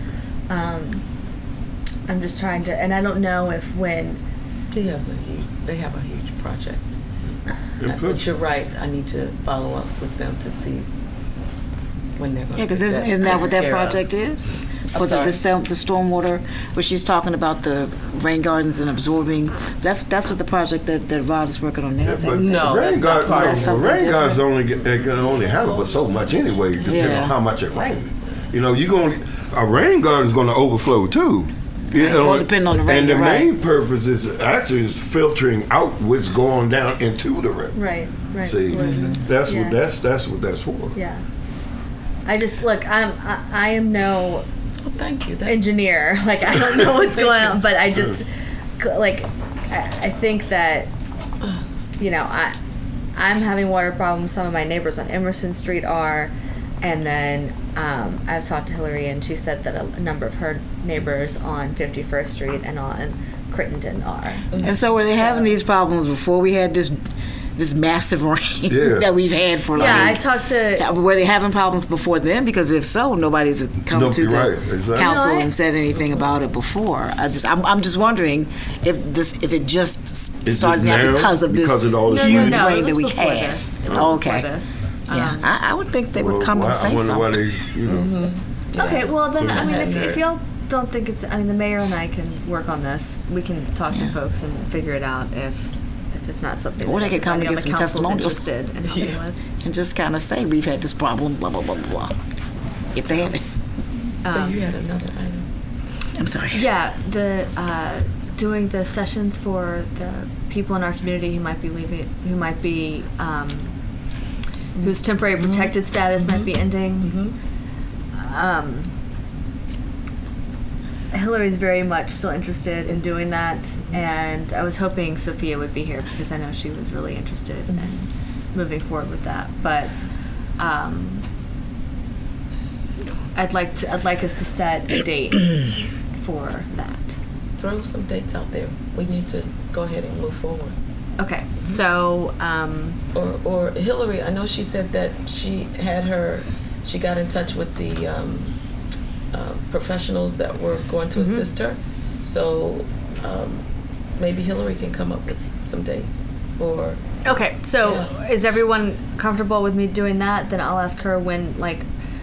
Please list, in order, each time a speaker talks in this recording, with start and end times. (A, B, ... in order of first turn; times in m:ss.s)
0:00.5-0:01.0 A
0:02.1-0:04.2 A
0:04.7-0:07.0 B
0:07.8-0:08.2 C
0:07.9-0:10.9 B
0:12.2-0:14.1 B
0:12.5-0:24.4 D
0:14.9-0:15.4 B
0:22.0-0:37.8 C
0:22.4-0:28.1 B
0:26.9-0:27.4 D
0:31.9-0:33.5 D
0:37.7-0:39.8 A
0:38.4-0:41.0 C
0:38.7-0:39.2 D
0:40.9-0:41.2 A
0:42.2-0:44.4 A
0:44.8-0:45.8 B
0:45.4-0:50.9 A
0:46.9-0:47.6 B
0:52.0-0:52.6 A
0:53.1-1:04.6 A
1:04.5-1:04.8 B
1:04.6-1:24.5 D
1:08.7-1:09.1 C
1:09.7-1:10.9 A
1:09.8-1:10.1 C
1:13.9-1:15.2 C
1:15.0-1:15.5 A
1:20.4-1:22.8 C
1:22.1-1:25.5 A
1:25.1-1:27.5 D
1:26.1-1:28.1 C
1:27.8-1:30.2 B
1:28.8-1:39.4 A
1:36.8-1:38.4 D
1:38.8-1:39.2 B
1:39.6-1:42.1 D
1:42.9-1:43.4 D
1:44.2-1:44.6 A
1:44.2-1:45.5 B
1:46.1-1:46.7 D
1:46.5-1:53.7 A
1:54.8-1:57.2 A
1:55.4-1:57.3 B
1:58.1-1:58.9 A
2:01.1-2:10.0 A
2:10.6-2:11.2 A
2:13.3-2:17.2 A
2:17.6-2:20.7 B
2:21.2-2:23.0 A
2:23.1-2:28.5 B
2:29.3-2:33.6 B
2:31.2-2:31.5 A
2:34.2-2:37.0 B
2:37.2-2:41.9 A
2:37.8-2:38.1 B